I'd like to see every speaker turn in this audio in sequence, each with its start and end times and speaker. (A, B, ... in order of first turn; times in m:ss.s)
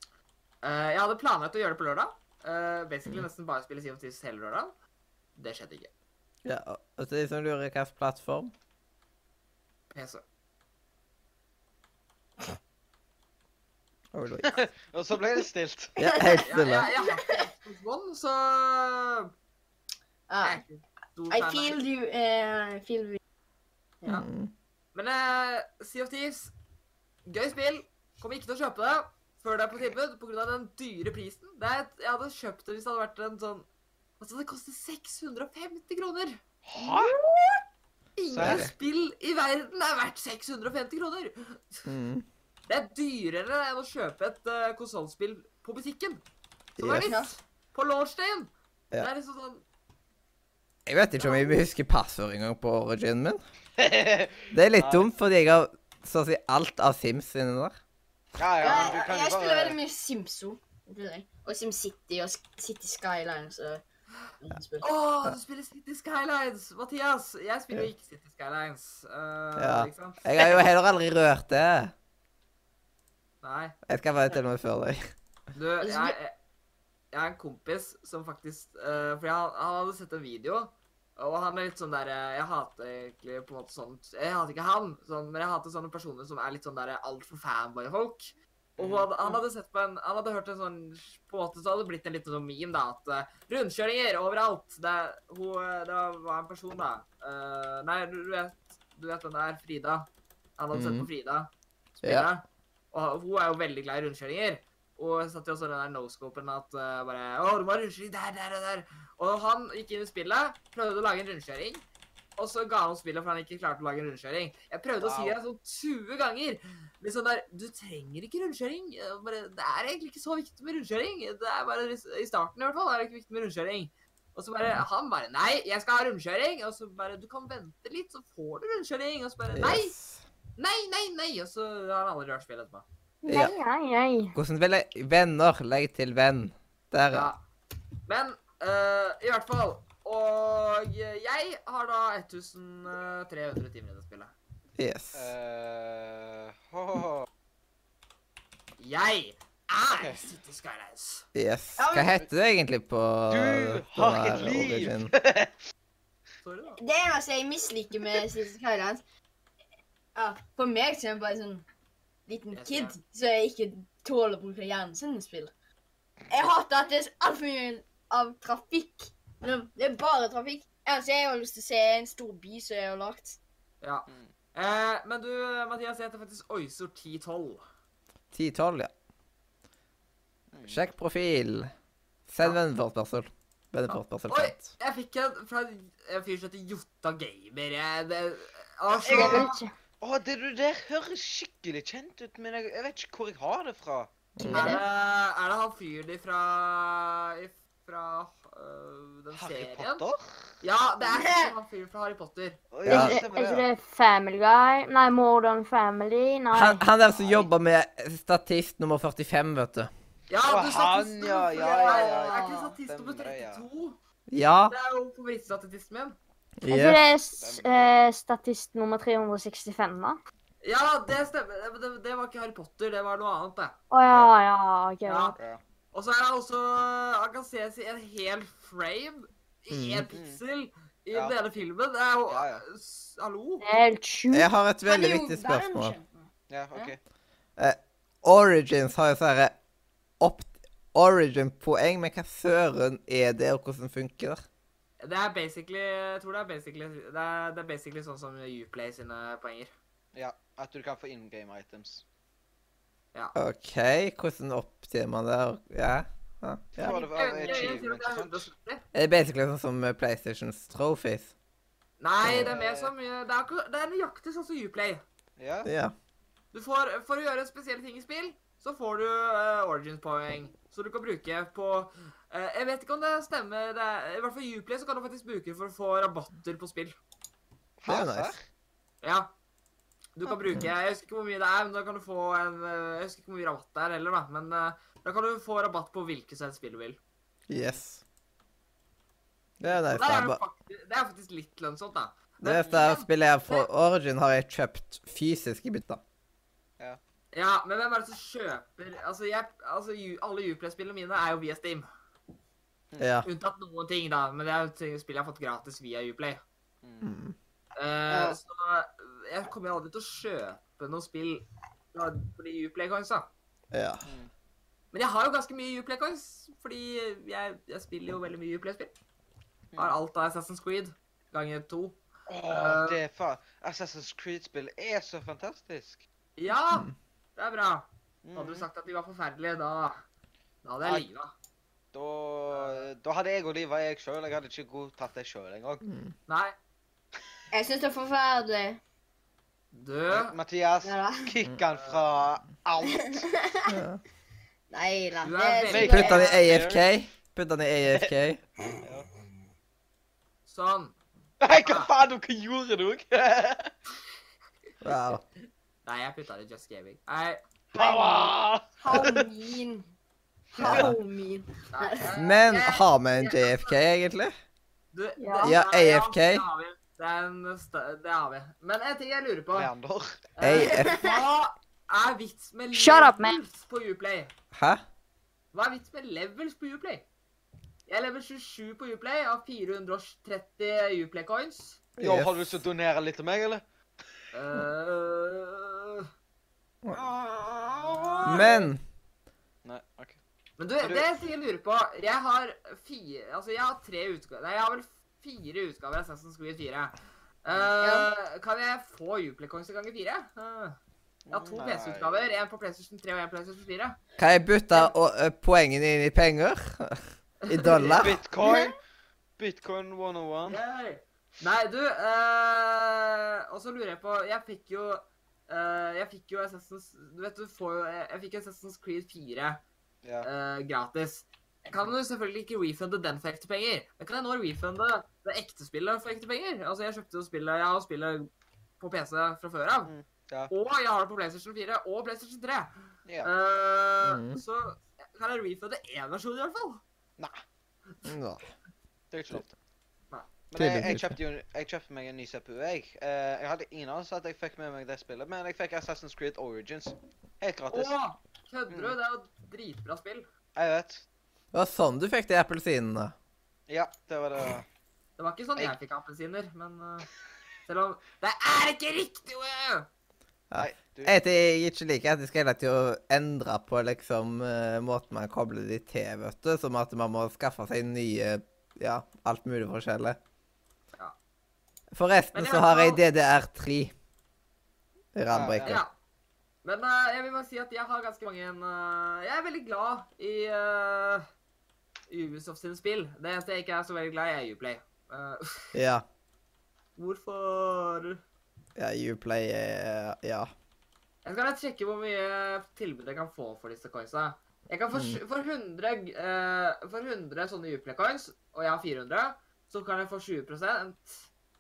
0:00.6-0:04.8 A
0:05.4-0:05.9 A
0:06.4-0:08.5 B
0:09.9-0:10.2 A
0:14.1-0:14.6 B
0:14.4-0:16.0 C
0:16.0-0:16.9 B
0:16.0-0:17.5 D
0:16.4-0:19.3 A
0:20.3-0:20.6 D
0:20.4-0:21.8 A
0:21.3-0:23.2 D
0:24.1-0:24.5 B
0:25.0-0:26.5 A
0:27.3-0:33.7 A
0:34.2-0:36.4 A
0:36.7-0:37.1 C
0:36.8-0:37.6 D
0:38.2-0:41.9 A
0:38.3-0:38.7 B
0:38.4-0:38.7 C
0:41.9-0:42.3 B
0:42.7-0:46.2 A
0:46.8-0:47.2 B
0:46.8-0:49.6 A
0:47.0-0:47.3 D
0:50.9-0:53.4 B
0:51.2-0:51.6 D
0:53.8-0:55.1 C
0:54.5-0:57.8 B
0:58.4-0:59.8 C
0:58.6-1:03.8 D
1:04.4-1:04.9 D
1:04.8-1:10.6 A
1:09.6-1:11.9 B
1:13.4-1:13.8 A
1:13.9-1:15.0 B
1:15.5-1:16.3 A
1:15.8-1:16.2 D
1:17.1-1:51.8 A
1:28.8-1:29.4 C
1:40.7-1:41.1 B
1:42.0-1:42.3 B
1:52.4-2:10.0 A
1:55.0-1:55.4 C
2:09.5-2:10.2 B
2:10.6-2:12.8 A
2:13.2-2:14.4 E
2:13.3-2:13.5 B
2:14.4-2:17.3 B
2:17.1-2:17.4 A
2:18.1-2:24.3 A
2:24.8-2:25.3 B
2:25.2-2:27.3 C
2:28.8-2:31.3 A
2:29.9-2:30.2 C
2:31.4-2:35.1 B
2:31.8-2:32.2 D
2:33.3-2:35.6 C
2:36.4-2:36.8 A
2:36.8-2:39.0 D
2:40.2-2:41.7 D
2:42.3-2:45.5 D
2:42.5-2:43.0 A
2:46.3-2:53.4 D
2:53.8-2:57.6 A
2:58.3-2:58.9 B
3:00.5-3:00.8 C
3:00.7-3:01.7 B
3:02.3-3:04.7 B
3:03.9-3:09.6 A
3:08.9-3:09.5 C
3:09.1-3:09.7 E
3:10.0-3:14.1 C
3:14.4-3:14.8 B
3:14.5-3:20.0 A
3:19.3-3:20.5 C
3:20.6-3:22.6 A
3:21.1-3:21.5 D
3:22.7-3:23.7 C
3:22.8-3:23.2 B
3:22.9-3:26.8 E
3:26.5-3:29.9 B
3:27.1-3:27.4 C
3:30.3-3:34.0 A
3:30.5-3:33.7 C
3:31.5-3:32.8 D
3:34.3-3:34.8 B
3:34.7-3:36.2 A
3:36.6-3:37.0 B
3:36.7-3:40.2 E
3:37.4-3:38.0 C
3:40.6-3:43.8 A
3:43.9-3:45.4 E
3:45.1-3:45.4 A
3:45.9-3:53.7 A
3:49.7-3:50.1 B
3:50.1-3:50.4 C
3:52.3-3:52.6 C
3:53.6-3:54.5 E
3:54.3-3:56.0 B
3:54.9-3:56.9 D
3:56.5-3:57.0 C
3:57.6-3:59.6 B
4:00.2-4:04.4 B
4:05.0-4:09.7 A
4:10.1-4:12.0 C
4:13.4-4:17.0 B
4:16.8-4:18.5 C
4:16.8-4:18.8 A
4:17.4-4:17.8 D
4:18.9-4:21.3 B
4:22.0-4:25.0 A
4:22.2-4:22.5 B
4:22.3-4:22.9 C
4:25.4-4:25.7 C
4:25.6-4:25.9 B
4:26.5-4:37.0 A
4:37.8-4:38.4 C
4:37.8-4:38.4 B
4:39.0-4:39.3 A
4:40.2-4:47.0 A
4:47.5-4:48.0 B
4:47.5-4:47.8 C
4:49.6-4:50.4 B
4:49.8-4:53.7 A
4:52.4-4:56.0 B
4:57.3-5:01.9 A
5:03.0-5:03.3 B
5:03.2-5:06.4 A
5:06.8-5:07.1 C
5:07.0-5:07.4 B
5:07.8-5:13.3 A
5:08.1-5:08.4 D
5:13.7-5:14.1 B
5:14.0-5:14.3 C
5:14.9-5:18.9 A
5:19.8-5:22.0 A
5:22.3-5:26.0 C
5:22.5-5:23.0 A
5:26.4-5:30.0 A
5:28.2-5:28.7 C
5:30.6-5:31.3 A
5:31.9-5:35.8 C
5:32.5-5:32.9 A
5:35.8-5:36.1 B
5:36.3-5:36.6 A
5:37.5-5:38.8 D
5:39.7-5:40.4 A
5:40.1-5:43.3 C
5:40.8-5:41.3 D
5:41.7-5:42.0 A
5:42.8-5:43.7 D
5:43.7-5:44.0 B
5:44.7-5:46.2 D
5:45.2-5:46.4 A
5:45.7-5:46.8 C
5:45.8-5:48.4 B
5:48.8-5:49.1 C
5:50.5-5:51.0 A
5:51.4-5:53.7 C
5:51.5-5:51.9 A
5:54.8-5:55.2 B
5:55.8-5:58.3 A
5:57.7-5:59.3 C
5:57.8-5:58.2 D
5:58.8-5:59.9 D
6:00.5-6:02.1 D
6:00.6-6:00.9 C
6:00.6-6:01.0 B
6:01.7-6:03.8 A
6:02.2-6:04.3 B
6:04.9-6:09.7 A
6:05.2-6:05.6 E
6:05.4-6:06.4 B
6:09.5-6:10.3 C
6:10.4-6:14.3 A
6:10.4-6:11.0 B
6:10.7-6:11.2 D
6:12.7-6:13.4 E
6:14.5-6:14.8 B
6:15.5-6:17.0 A
6:17.9-6:21.8 A
6:22.0-6:22.6 B
6:22.0-6:23.6 C
6:24.3-6:26.1 A
6:26.9-6:28.5 C
6:27.8-6:28.7 A
6:28.2-6:28.8 B
6:29.6-6:30.2 C
6:30.6-6:40.8 A
6:30.8-6:31.2 C
6:37.8-6:38.1 D
6:41.3-6:42.2 C
6:41.3-6:44.0 A
6:44.2-6:48.2 B
6:47.4-6:48.1 A
6:47.9-6:48.7 C
6:49.4-6:50.6 C
6:50.5-6:59.6 A
7:00.2-7:08.3 A
7:08.8-7:09.9 A
7:09.9-7:10.5 C
7:10.5-7:12.7 A
7:13.1-7:13.3 C
7:13.2-7:16.8 A
7:14.0-7:14.4 B
7:18.0-7:18.4 B
7:19.1-7:19.6 C
7:20.5-7:27.9 C
7:20.6-7:21.2 B
7:27.7-7:30.3 A
7:28.7-7:29.0 C
7:30.6-7:31.0 C
7:31.5-7:33.1 B
7:33.7-7:34.7 C
7:35.2-7:37.1 A
7:37.7-7:39.9 A
7:40.5-7:50.2 B
7:40.6-7:41.2 C
7:51.9-7:53.9 B
7:52.3-7:53.0 A
7:55.2-7:55.8 B
7:55.3-7:55.8 C
7:55.6-7:55.9 A
7:56.6-8:01.3 A
8:02.1-8:05.8 A
8:05.7-8:06.0 B
8:07.0-8:08.2 A
8:08.8-8:10.5 B
8:11.2-8:21.3 A
8:14.9-8:15.2 B